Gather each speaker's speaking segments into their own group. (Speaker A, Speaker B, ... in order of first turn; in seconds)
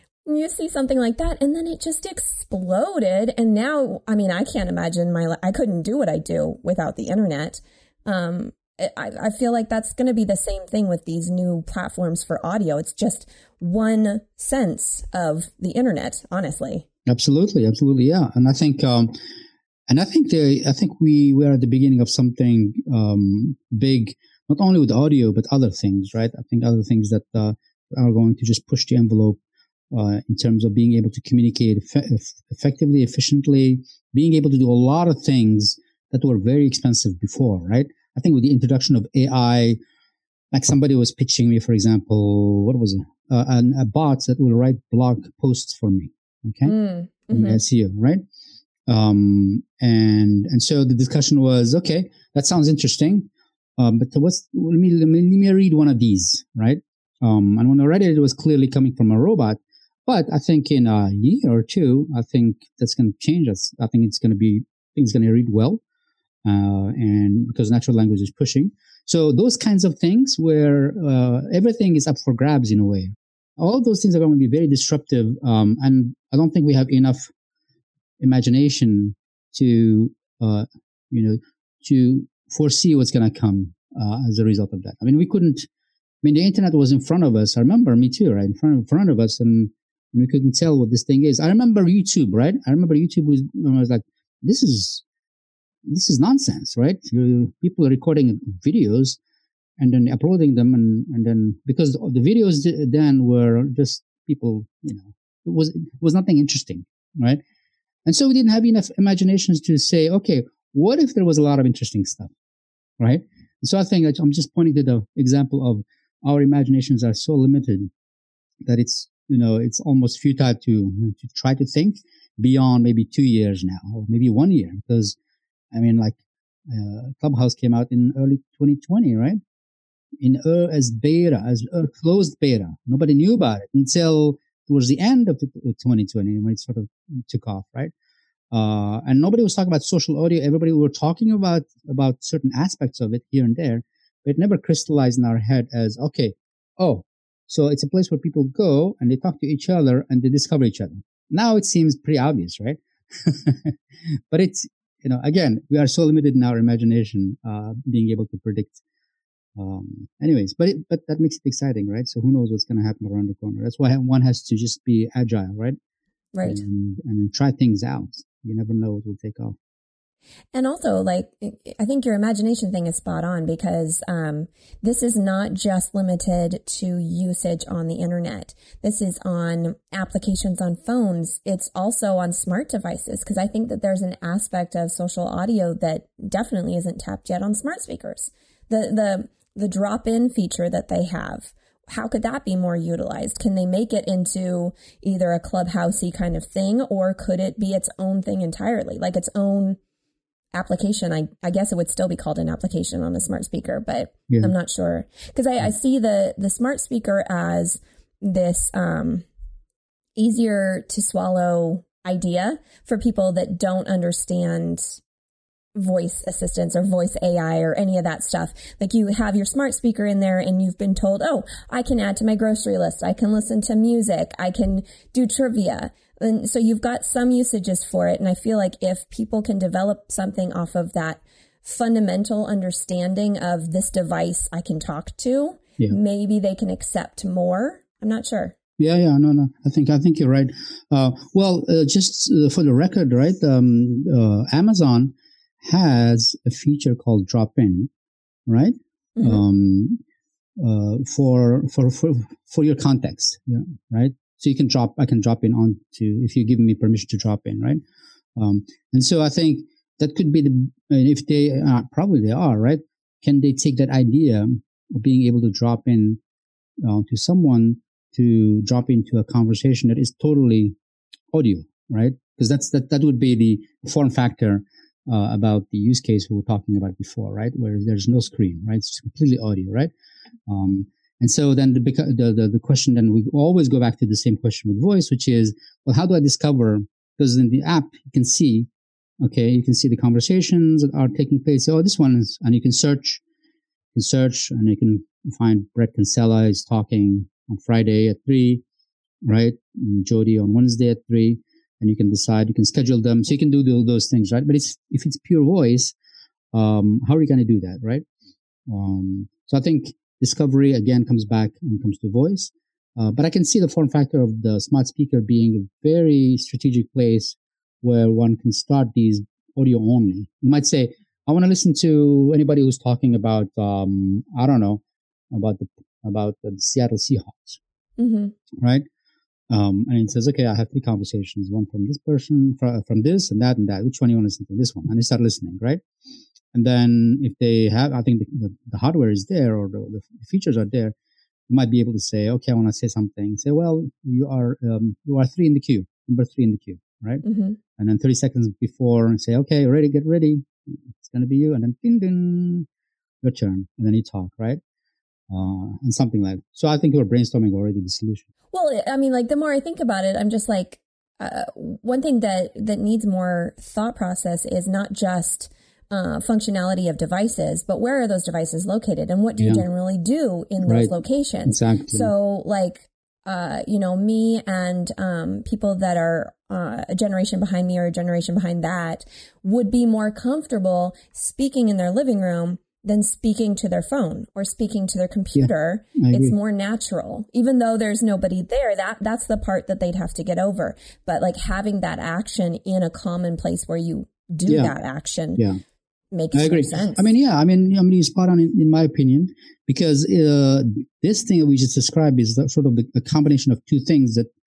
Speaker A: 0.3-16.9, 46.6-47.6, 166.3-166.6, 170.5-199.8, 200.5-209.3, 210.2-215.0, 215.8-238.6, 249.2-249.4, 328.0-328.4, 347.2-347.6, 358.5-395.4, 396.1-397.1
Speaker B: 17.1-19.1, 19.9-29.4, 29.9-39.8, 40.5-46.8, 47.3-48.2, 48.9-65.8, 66.5-77.3, 78.2-85.7, 86.2-95.0, 95.9-99.2, 99.8-107.4, 108.1-112.3, 113.0-117.9, 118.7-125.2, 125.7-129.4, 130.2-137.9, 138.5-153.8, 154.3-158.8, 159.6-165.8, 166.4-169.6, 238.8-247.9, 248.5-250.0, 250.6-257.8, 258.4-266.2, 266.8-270.8, 271.3-279.9, 280.5-288.7, 289.2-293.2, 293.9-298.6, 299.2-305.9, 306.5-308.1, 308.7-327.6, 329.5-335.8, 336.5-340.9, 341.5-347.2, 347.8-352.7, 353.2-354.6, 355.3-358.3, 369.4-369.7, 370.6-370.9, 371.5-372.1, 385.4-386.4, 394.5-394.8, 396.3-404.3